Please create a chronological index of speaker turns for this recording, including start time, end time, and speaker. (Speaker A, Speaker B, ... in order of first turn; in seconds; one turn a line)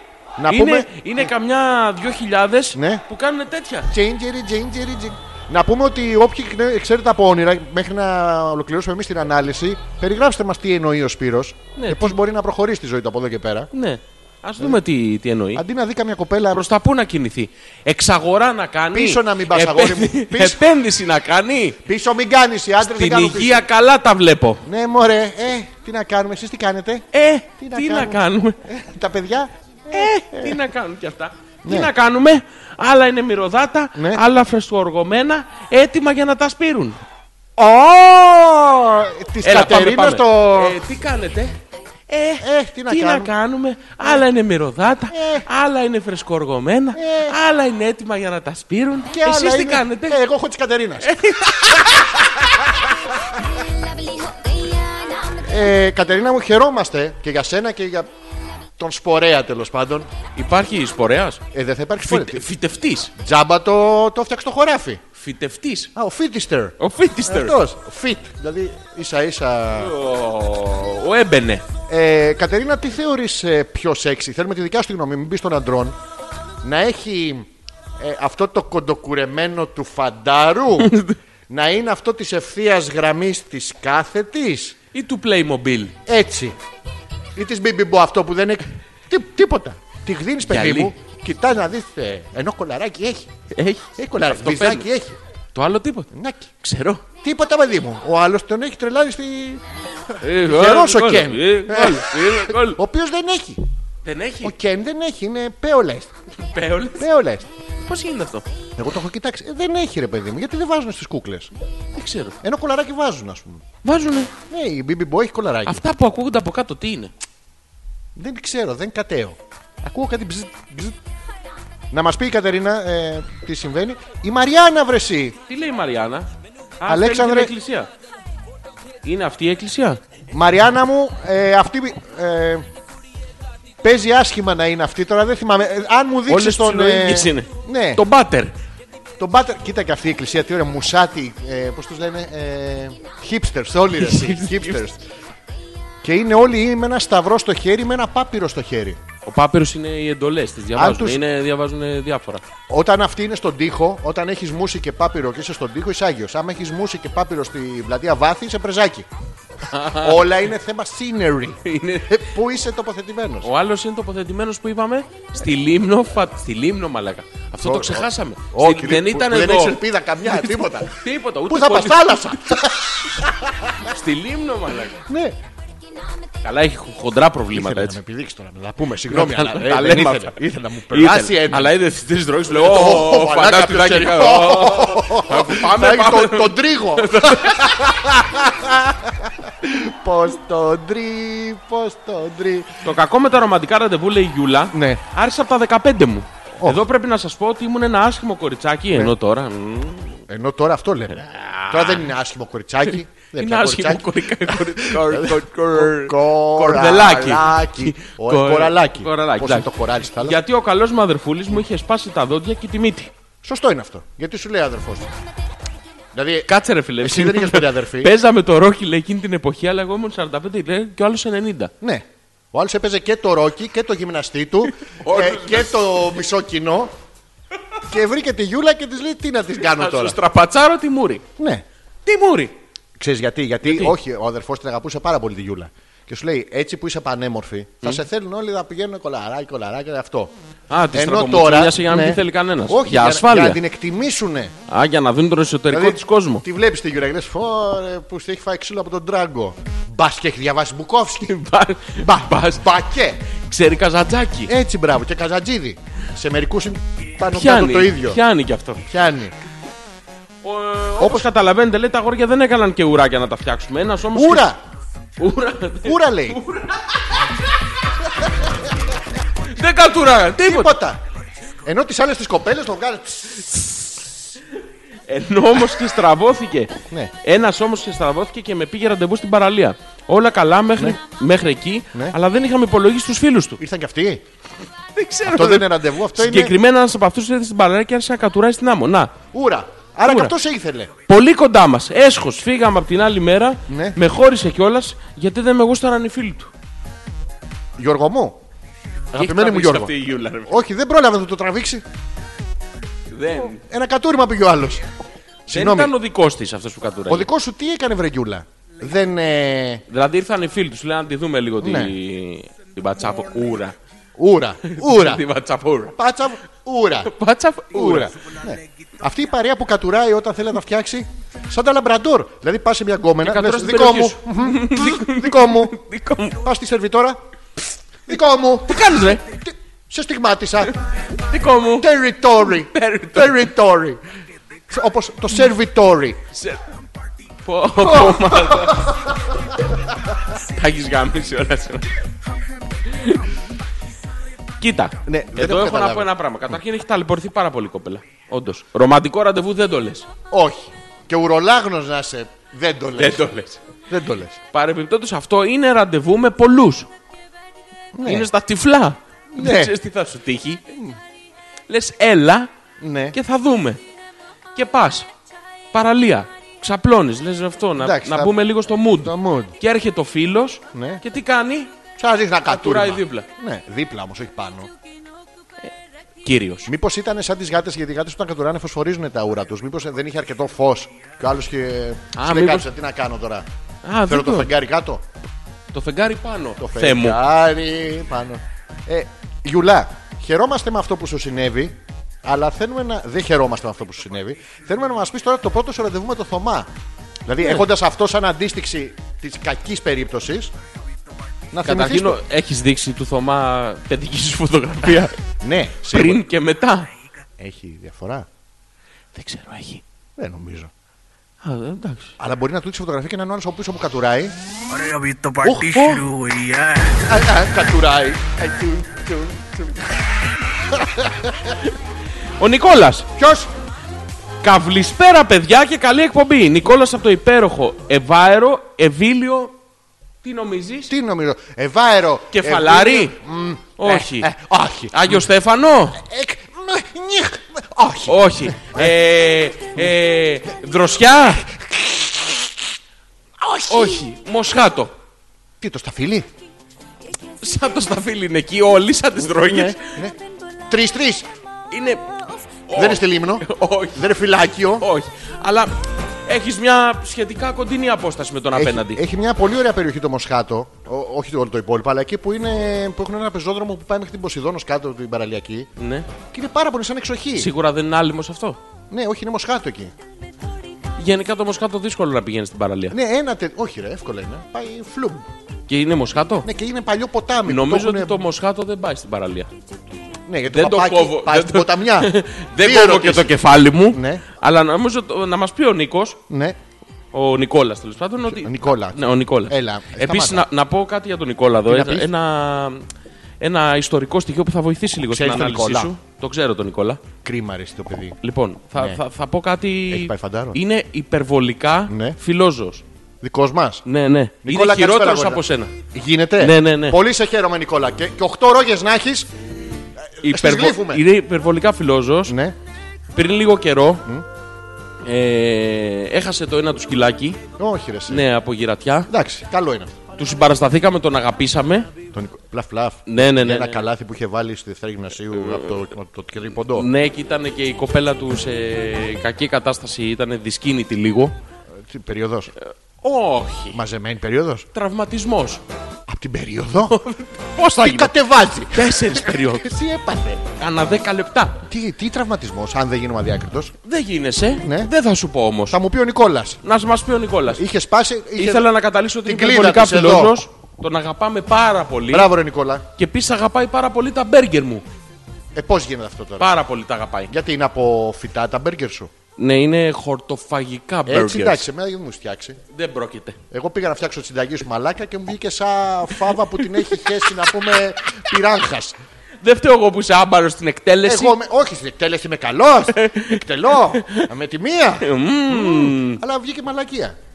Speaker A: 0.4-1.3
Speaker B: 0.5-3.9
Speaker A: 2.7-3.0
Speaker A: 3.9-13.7
Speaker B: 11.8-12.2
Speaker B: 13.7-15.6
Speaker A: 15.6-16.6
Speaker B: 16.5-21.8
Speaker A: 18.9-20.6
Speaker A: 21.9-23.6
Speaker B: 22.8-24.6
Speaker A: 24.6-27.1
Speaker B: 27.1-28.6
Speaker A: 27.6-30.6
Speaker B: 29.9-37.0
Speaker A: 31.6-31.9
Speaker A: 34.0-34.2
Speaker A: 37.6-40.8
Speaker B: 39.4-41.6
Speaker B: 42.1-50.2
Speaker A: 42.4-43.3
Speaker A: 45.1-45.5
Speaker A: 47.0-47.4
Speaker A: 49.1-54.1
Speaker B: 51.0-52.0
Speaker A: 55.2-58.1
Speaker A: 58.8-60.1
Speaker B: 60.4-61.4
Speaker A: 61.5-62.5
Speaker B: 62.0-63.1
Speaker A: 63.2-65.0
Speaker B: 65.2-65.9
Speaker A: 66.0-69.9
Speaker B: 66.8-67.6
Speaker B: 69.8-71.7
Speaker A: 71.9-76.0
Speaker A: 76.6-81.0
Speaker B: 80.8-81.2
Speaker A: 81.5-84.8
Speaker B: 84.9-86.0
Speaker A: 86.1-86.6
Speaker A: 87.3-93.3
Speaker B: 90.5-90.9
Speaker B: 93.5-94.9
Speaker A: 94.0-95.2
Speaker B: 95.5-96.1
Speaker A: 96.1-96.5
Speaker B: 96.6-97.0
Speaker A: 97.2-103.6
Speaker B: 100.2-102.8
Speaker B: 104.0-104.5
Speaker A: 104.4-106.1
Speaker B: 106.4-107.1
Speaker A: 107.0-107.5
Speaker B: 107.8-108.5
Speaker A: 108.8-111.5
Speaker B: 112.0-112.4
Speaker A: 112.4-113.7
Speaker B: 113.8-114.3
Speaker A: 114.5-115.8
Speaker B: 115.7-117.1
Speaker A: 118.2-121.0
Speaker A: 121.9-125.4
Speaker B: 125.5-126.3
Speaker B: 126.8-127.9
Speaker A: 126.9-127.5
Speaker B: 129.0-130.0
Speaker A: 130.3-132.7
Speaker A: 133.8-138.0
Speaker B: 136.3-138.5
Speaker A: 139.2-145.1
Speaker B: 144.0-144.8
Speaker A: 146.0-149.0
Speaker B: 149.2-152.4
Speaker A: 150.8-151.2
Speaker A: 152.7-159.1
Speaker B: 159.7-160.3
Speaker A: 160.0-163.5
Speaker B: 161.6-162.1
Speaker B: 163.4-172.6
Speaker A: 167.6-173.8
Speaker B: 173.8-175.0
Speaker A: 175.1-175.4
Speaker B: 176.4-178.0
Speaker A: 177.5-181.8
Speaker B: 179.1-180.4
Speaker B: 180.9-187.8
Speaker A: 182.5-192.7
Speaker B: 192.8-200.2
Speaker A: 194.7-195.0
Speaker A: 200.3-210.4
Speaker B: 201.2-202.1
Speaker B: 203.3-213.1
Speaker A: 213.4-215.1
Speaker A: 216.1-218.2
Speaker B: 216.5-221.7
Speaker A: 221.8-226.9
Speaker B: 224.9-225.9
Speaker A: 227.9-230.2
Speaker B: 229.7-231.2
Speaker A: 231.4-231.7
Speaker B: 232.1-232.5
Speaker A: 233.0-240.3
Speaker B: 233.6-233.9
Speaker B: 240.7-243.6
Speaker A: 240.9-244.5
Speaker B: 244.7-246.4
Speaker A: 245.7-251.4
Speaker B: 251.3-252.7
Speaker A: 252.0-253.2
Speaker B: 253.5-254.5
Speaker A: 254.5-258.2
Speaker B: 257.3-258.9
Speaker A: 258.9-259.3
Speaker B: 260.4-264.5
Speaker A: 261.0-261.3
Speaker A: 264.1-264.6
Speaker B: 265.2-267.2
Speaker A: 265.8-266.4
Speaker B: 269.4-270.8
Speaker A: 270.4-271.0
Speaker A: 271.6-274.0
Speaker B: 275.1-283.6
Speaker A: 283.6-284.2
Speaker B: 284.9-289.1
Speaker A: 285.3-286.5
Speaker A: 289.3-290.9
Speaker B: 290.1-290.3
Speaker B: 291.1-296.5
Speaker A: 293.7-294.0
Speaker A: 297.8-298.4
Speaker B: 299.1-300.6
Speaker A: 299.2-299.9
Speaker A: 300.5-301.8
Speaker B: 303.1-303.6
Speaker A: 303.6-304.9
Speaker B: 305.5-307.3
Speaker A: 305.5-305.9
Speaker A: 307.1-309.8
Speaker B: 309.9-313.8
Speaker A: 311.6-311.9
Speaker A: 314.2-315.2
Speaker B: 314.7-316.0
Speaker A: 315.9-317.1
Speaker B: 317.0-318.1
Speaker A: 317.7-325.8
Speaker B: 323.2-326.4
Speaker A: 326.4-327.2
Speaker A: 328.1-330.7
Speaker B: 328.6-329.2
Speaker B: 331.2-331.9
Speaker A: 331.8-334.0
Speaker B: 332.7-333.5
Speaker A: 334.7-336.2
Speaker B: 336.3-336.6
Speaker B: 337.4-339.1
Speaker A: 337.8-338.9
Speaker B: 340.4-341.9
Speaker B: 342.9-343.3
Speaker B: 344.6-350.1
Speaker A: 345.1-346.1
Speaker A: 350.3-353.3
Speaker B: 353.0-353.6
Speaker A: 353.9-354.4
Speaker B: 354.5-356.9
Speaker A: 357.9-358.3
Speaker B: 358.0-360.6
Speaker A: 359.4-359.7
Speaker A: 360.7-361.0
Speaker B: 361.7-362.5
Speaker A: 362.8-363.2
Speaker B: 363.1-363.8
Speaker B: 364.6-365.1
Speaker B: 365.7-371.7
Speaker A: 367.8-368.3
Speaker A: 368.9-369.6
Speaker A: 370.7-371.0
Speaker A: 372.0-374.7
Speaker B: 372.5-373.3
Speaker B: 376.2-376.7
Speaker A: 376.7-383.5
Speaker B: 382.1-382.7
Speaker B: 383.9-384.5
Speaker A: 384.1-385.0
Speaker B: 385.7-387.2
Speaker A: 386.6-396.7
Speaker A: 397.3-400.5
Speaker A: 401.5-402.2
Speaker B: 401.6-405.2
Speaker A: 405.4-406.2
Speaker B: 405.9-406.9
Speaker A: 407.4-408.3
Speaker B: 409.1-409.8
Speaker A: 410.2-410.7
Speaker B: 411.4-412.1
Speaker A: 412.2-414.3
Speaker C: 414.7-417.0
Speaker A: 415.4-416.0
Speaker B: 415.7-416.0
Speaker A: 417.0-421.6
Speaker B: 422.4-423.1
Speaker A: 423.2-423.5
Speaker B: 424.4-429.6
Speaker B: 430.2-430.9
Speaker A: 430.9-435.3
Speaker B: 432.3-433.2
Speaker B: 433.8-434.3
Speaker B: 434.9-436.0
Speaker A: 435.9-438.9
Speaker B: 438.1-441.5
Speaker A: 441.6-442.5
Speaker A: 443.4-444.1
Speaker B: 443.7-444.9
Speaker A: 445.6-446.3
Speaker B: 447.4-449.9
Speaker A: 449.4-450.2
Speaker A: 450.7-451.3
Speaker B: 451.7-454.1
Speaker A: 452.7-454.9
Speaker B: 454.8-455.7
Speaker B: 456.3-459.0
Speaker A: 458.5-465.7
Speaker B: 465.8-466.1
Speaker A: 466.3-467.5
Speaker B: 467.4-468.6
Speaker A: 468.9-469.9
Speaker B: 471.0-473.0
Speaker A: 472.9-475.3
Speaker B: 475.7-476.5
Speaker A: 476.4-478.2
Speaker B: 477.5-479.5
Speaker A: 480.3-484.2
Speaker B: 480.5-486.2
Speaker A: 486.3-486.6
Speaker B: 487.1-492.9
Speaker A: 488.2-490.5
Speaker A: 491.7-492.1
Speaker B: 493.4-497.0
Speaker A: 495.1-495.9
Speaker A: 497.2-498.2
Speaker B: 498.2-502.8
Speaker A: 499.9-500.6
Speaker A: 501.9-502.2
Speaker A: 503.2-503.8
Speaker B: 503.9-505.7
Speaker A: 504.4-509.3
Speaker B: 506.4-507.0
Speaker A: 510.1-511.0
Speaker B: 510.2-512.4
Speaker A: 512.3-512.6
Speaker B: 513.1-514.0
Speaker B: 515.0-517.4
Speaker A: 517.6-518.2
Speaker B: 518.1-519.1
Speaker A: 519.1-520.0
Speaker B: 520.2-521.9
Speaker A: 522.1-526.9
Speaker B: 523.1-523.9
Speaker B: 525.3-525.7
Speaker B: 526.8-531.4
Speaker A: 531.8-532.5
Speaker B: 532.6-533.8
Speaker A: 533.7-534.7
Speaker B: 534.7-535.6
Speaker A: 536.1-537.0
Speaker B: 536.9-538.1
Speaker A: 537.8-540.4
Speaker B: 538.7-539.7
Speaker B: 540.5-541.6
Speaker A: 541.7-543.7
Speaker B: 543.8-545.8
Speaker A: 544.6-544.9
Speaker A: 545.7-546.6
Speaker B: 546.6-547.6
Speaker A: 547.5-548.7
Speaker B: 548.4-552.3
Speaker A: 549.2-550.4
Speaker A: 552.1-552.8
Speaker B: 553.0-554.8
Speaker A: 555.5-556.5
Speaker B: 556.4-557.3
Speaker A: 557.3-559.1
Speaker B: 559.4-561.7
Speaker A: 561.1-562.6
Speaker B: 562.7-563.4
Speaker A: 563.5-569.0
Speaker B: 566.9-567.6
Speaker B: 569.4-571.4
Speaker A: 571.0-577.2
Speaker B: 572.9-574.3
Speaker B: 575.0-576.2